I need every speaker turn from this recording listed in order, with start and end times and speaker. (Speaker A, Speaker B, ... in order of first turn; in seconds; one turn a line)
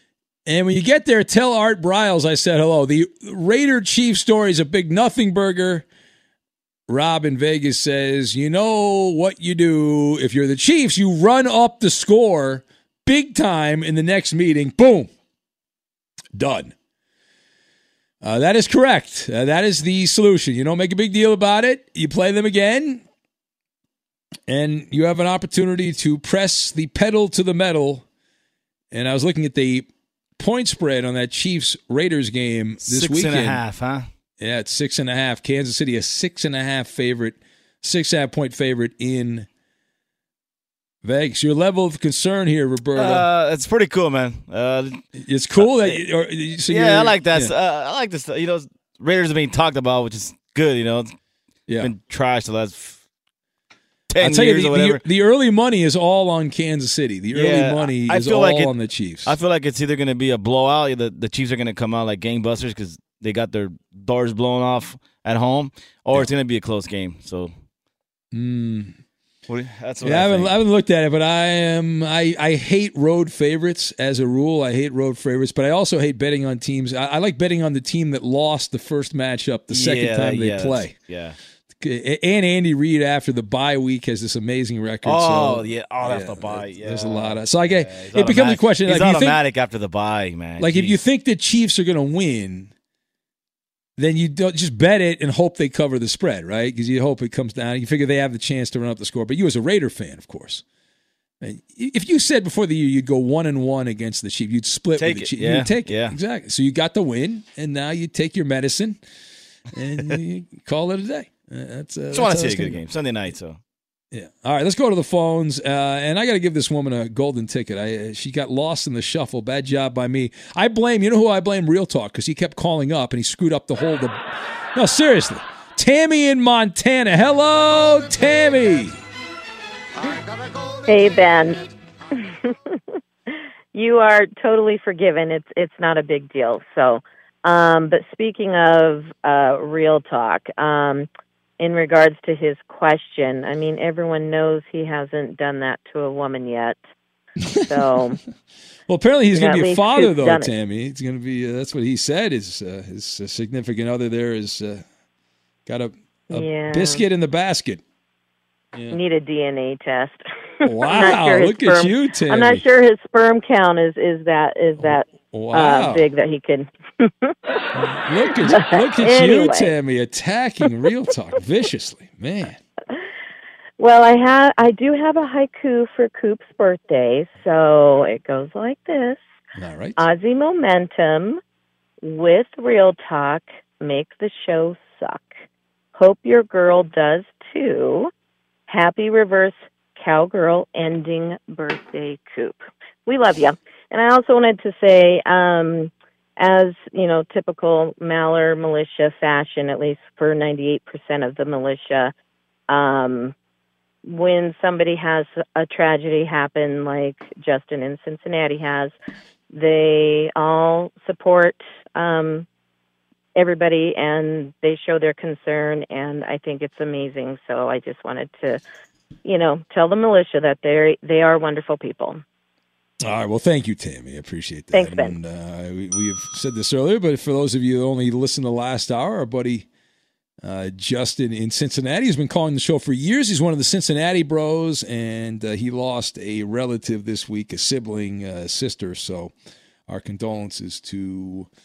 Speaker A: 0.5-5.8
Speaker A: 6.9-15.1
Speaker A: 16.4-16.7
Speaker A: 18.2-23.0
Speaker A: 24.5-28.1
Speaker A: 28.9-29.9
Speaker A: 30.4-33.6
Speaker B: 32.8-34.1
Speaker A: 34.4-39.5
Speaker A: 41.0-43.3
Speaker B: 43.0-45.0
Speaker A: 45.2-47.5
Speaker B: 45.6-46.0
Speaker B: 46.7-51.1
Speaker B: 51.8-53.0
Speaker B: 54.1-55.0
Speaker A: 54.2-59.4
Speaker B: 57.3-67.5
Speaker A: 68.3-69.0
Speaker B: 69.5-70.6
Speaker A: 70.0-81.0
Speaker B: 79.7-81.4
Speaker A: 81.8-89.4
Speaker B: 85.0-91.0
Speaker A: 90.6-92.7
Speaker A: 94.0-100.6
Speaker A: 101.4-109.0
Speaker B: 105.0-106.2
Speaker A: 109.7-112.8
Speaker B: 112.1-113.6
Speaker A: 114.1-124.2
Speaker A: 124.8-129.0
Speaker C: 130.9-131.6
Speaker C: 132.2-132.8
Speaker C: 133.7-141.1
Speaker C: 141.6-146.8
Speaker C: 147.7-148.2
Speaker A: 148.9-154.8
Speaker C: 149.3-150.5
Speaker A: 155.7-157.8
Speaker C: 156.3-157.1
Speaker A: 158.7-159.0
Speaker C: 158.9-167.3
Speaker A: 160.6-162.6
Speaker A: 164.8-166.1
Speaker A: 167.7-172.6
Speaker C: 168.4-169.7
Speaker C: 173.8-179.2
Speaker A: 179.6-180.0
Speaker C: 180.0-181.4
Speaker C: 182.0-185.4
Speaker C: 185.9-188.1
Speaker C: 188.7-202.1
Speaker C: 202.7-203.3
Speaker C: 204.1-209.0
Speaker C: 209.5-212.5
Speaker C: 213.3-218.6
Speaker C: 219.2-222.2
Speaker A: 223.0-229.7
Speaker C: 224.7-225.2
Speaker A: 230.4-239.3
Speaker A: 239.9-241.5